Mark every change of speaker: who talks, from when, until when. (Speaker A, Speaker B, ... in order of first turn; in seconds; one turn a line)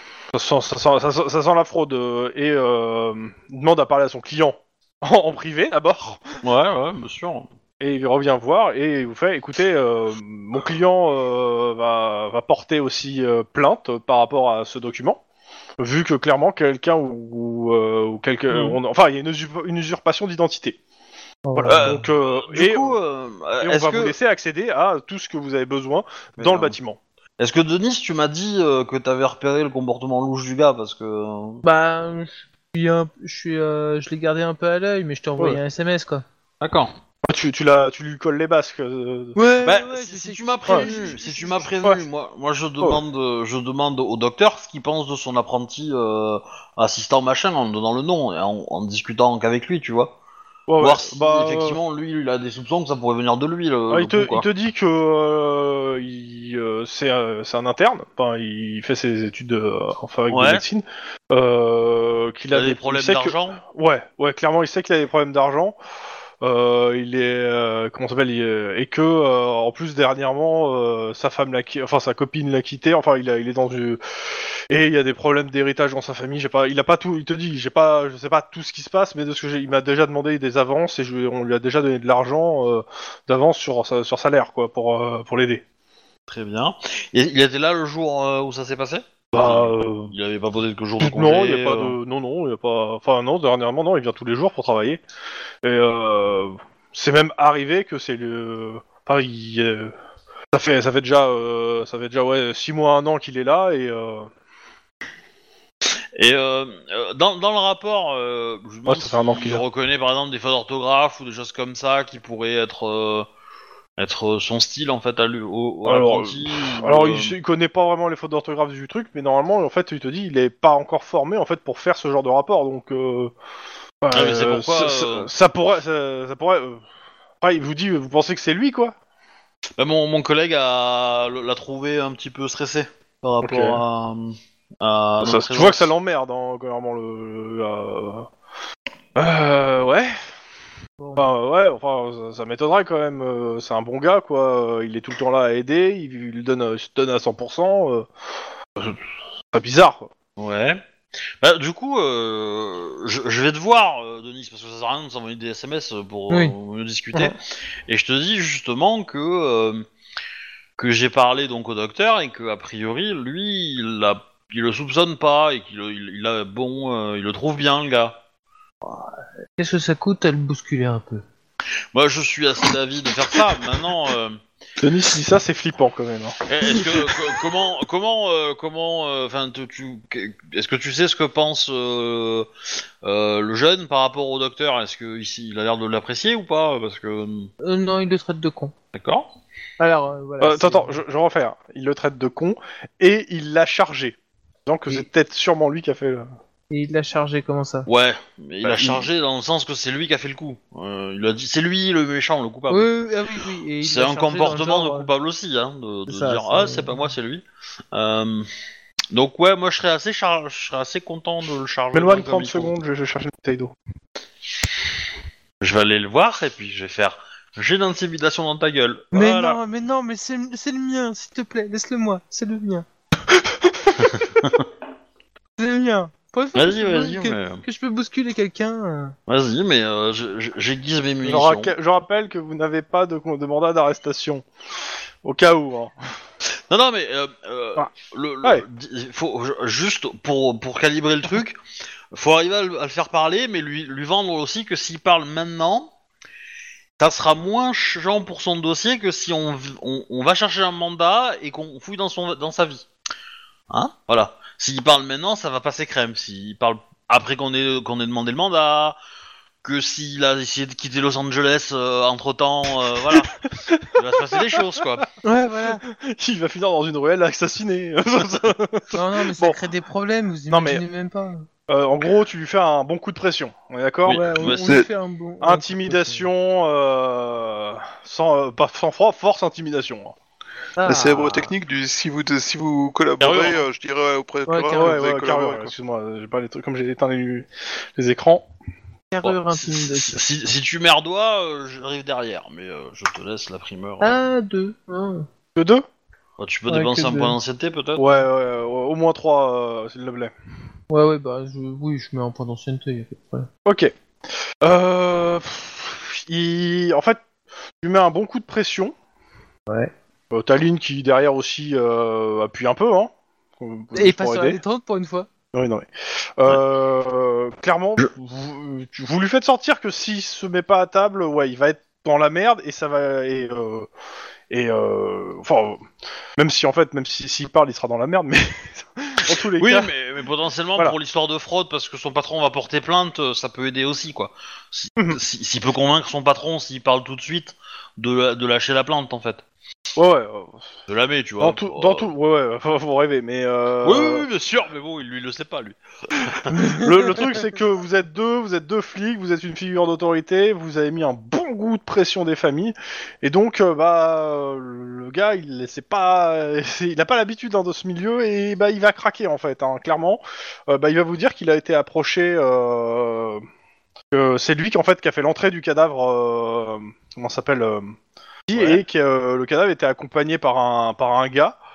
Speaker A: 0.3-6.2
Speaker B: 6.4-7.5
Speaker A: 7.8-15.2
Speaker A: 15.8-20.8
Speaker C: 21.5-22.0
Speaker A: 21.5-23.0
Speaker B: 21.7-24.1
Speaker A: 23.6-27.0
Speaker B: 26.4-26.8
Speaker B: 27.4-31.6
Speaker C: 31.6-36.2
Speaker B: 36.6-36.9
Speaker A: 37.3-39.4
Speaker C: 39.4-41.7
Speaker B: 39.6-50.2
Speaker A: 50.7-51.8
Speaker B: 50.8-54.5
Speaker A: 53.9-65.8
Speaker B: 60.3-60.6
Speaker B: 62.5-63.6
Speaker A: 66.4-74.0
Speaker A: 74.7-85.6
Speaker B: 86.3-92.0
Speaker A: 89.3-90.1
Speaker A: 91.0-95.0
Speaker A: 95.6-99.9
Speaker A: 100.5-104.3
Speaker B: 106.2-113.3
Speaker A: 108.9-109.7
Speaker B: 114.0-117.3
Speaker A: 115.8-123.3
Speaker A: 124.0-126.8
Speaker B: 124.1-125.3
Speaker A: 127.4-128.9
Speaker B: 129.8-135.9
Speaker A: 133.4-133.8
Speaker A: 135.2-138.3
Speaker A: 139.2-140.2
Speaker C: 141.0-141.3
Speaker A: 141.2-148.1
Speaker A: 149.5-150.1
Speaker B: 150.4-150.8
Speaker B: 151.4-159.9
Speaker C: 156.3-156.6
Speaker B: 160.8-168.2
Speaker C: 168.8-171.2
Speaker B: 171.9-174.4
Speaker A: 174.8-176.4
Speaker B: 176.5-182.5
Speaker B: 183.0-187.5
Speaker C: 187.6-188.7
Speaker B: 188.9-189.3
Speaker C: 189.8-191.0
Speaker A: 190.4-196.3
Speaker C: 196.7-197.9
Speaker B: 197.9-202.9
Speaker A: 198.6-199.0
Speaker C: 202.7-205.1
Speaker B: 203.8-208.5
Speaker C: 206.1-207.1
Speaker B: 209.1-212.7
Speaker A: 211.9-213.8
Speaker B: 215.6-219.6
Speaker C: 219.1-222.9
Speaker A: 219.2-219.5
Speaker A: 223.6-224.1
Speaker B: 224.0-224.7
Speaker C: 225.6-229.2
Speaker B: 226.6-227.6
Speaker B: 229.3-231.7
Speaker A: 231.2-234.4
Speaker A: 235.2-235.9
Speaker B: 236.7-241.6
Speaker B: 242.1-245.9
Speaker B: 247.0-252.9
Speaker B: 253.7-259.0
Speaker B: 259.6-263.4
Speaker A: 262.9-264.8
Speaker B: 263.9-265.1
Speaker C: 265.2-265.8
Speaker A: 265.8-269.6
Speaker C: 268.9-271.5
Speaker A: 270.5-270.8
Speaker A: 271.7-274.2
Speaker B: 274.1-274.8
Speaker C: 274.1-276.3
Speaker A: 275.4-280.1
Speaker C: 280.8-281.5
Speaker D: 280.9-285.7
Speaker B: 283.2-283.6
Speaker C: 284.5-285.0
Speaker A: 284.8-288.5
Speaker C: 289.1-290.2
Speaker B: 289.2-294.2
Speaker C: 294.0-295.3
Speaker A: 295.6-295.9
Speaker B: 296.4-298.2
Speaker C: 296.7-297.4
Speaker A: 298.0-300.3
Speaker C: 300.9-303.5
Speaker A: 303.6-303.9
Speaker A: 304.6-307.2
Speaker A: 307.8-308.9
Speaker A: 310.3-314.6
Speaker C: 313.9-315.3
Speaker A: 315.5-315.9
Speaker A: 316.4-323.9
Speaker A: 324.5-325.8
Speaker A: 326.4-329.9
Speaker B: 329.6-339.4
Speaker A: 340.0-340.7
Speaker B: 340.9-342.1
Speaker A: 341.4-344.3
Speaker B: 343.8-346.6
Speaker A: 346.7-363.4
Speaker A: 364.1-368.0
Speaker A: 368.5-371.6
Speaker B: 368.5-368.8